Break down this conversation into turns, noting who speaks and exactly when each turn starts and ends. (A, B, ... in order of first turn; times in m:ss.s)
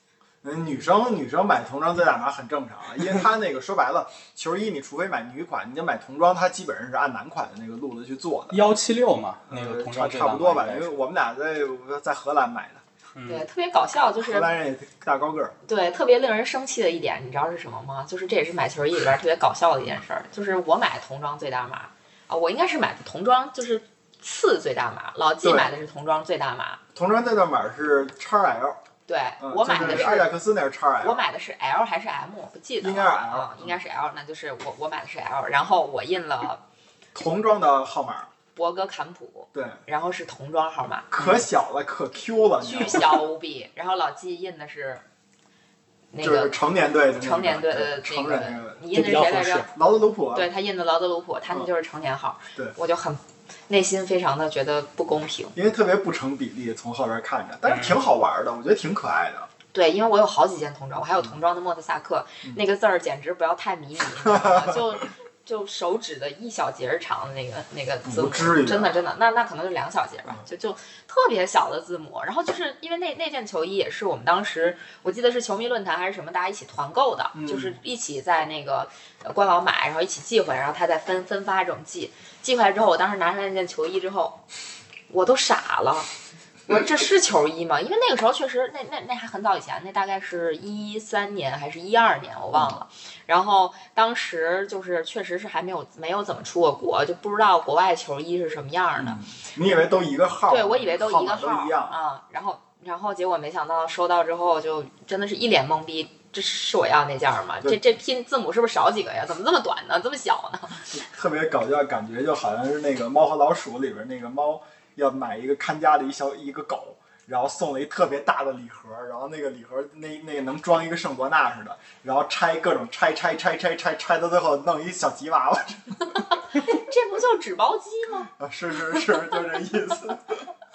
0:00.4-0:08.6 A
0:08.5-0:10.9 B
0:09.5-0:12.8 A
0:13.1-0:13.4 B
0:13.3-0:14.5 C
0:14.2-0:15.5 A
0:15.6-0:26.8 C
0:25.4-0:25.7 A
0:26.9-0:28.8 A
0:29.1-0:30.3 C
0:29.4-0:31.2 A
0:31.0-0:36.6 C
0:32.8-0:33.8 A
0:37.1-0:38.3 A
0:38.5-0:41.1 C
0:39.5-0:39.8 A
0:41.1-0:43.2 A
0:42.6-0:45.0 C
0:46.1-0:46.5 C
0:46.2-0:49.0 A
0:47.2-0:49.7 C
0:48.9-0:49.7 B
0:49.6-0:50.5 A
0:50.3-0:55.5 C
0:55.5-0:59.5 A
0:57.7-0:58.0 B
0:59.7-1:24.4 C
1:04.2-1:04.9 A
1:08.0-1:08.9 A
1:17.3-1:17.8 A
1:25.1-1:26.1 C
1:26.7-1:39.2 C
1:32.5-1:32.8 A
1:39.0-1:42.0 A
1:40.5-1:50.9 C
1:50.9-2:06.2 A
2:06.4-2:08.3 C
2:08.4-2:10.5 A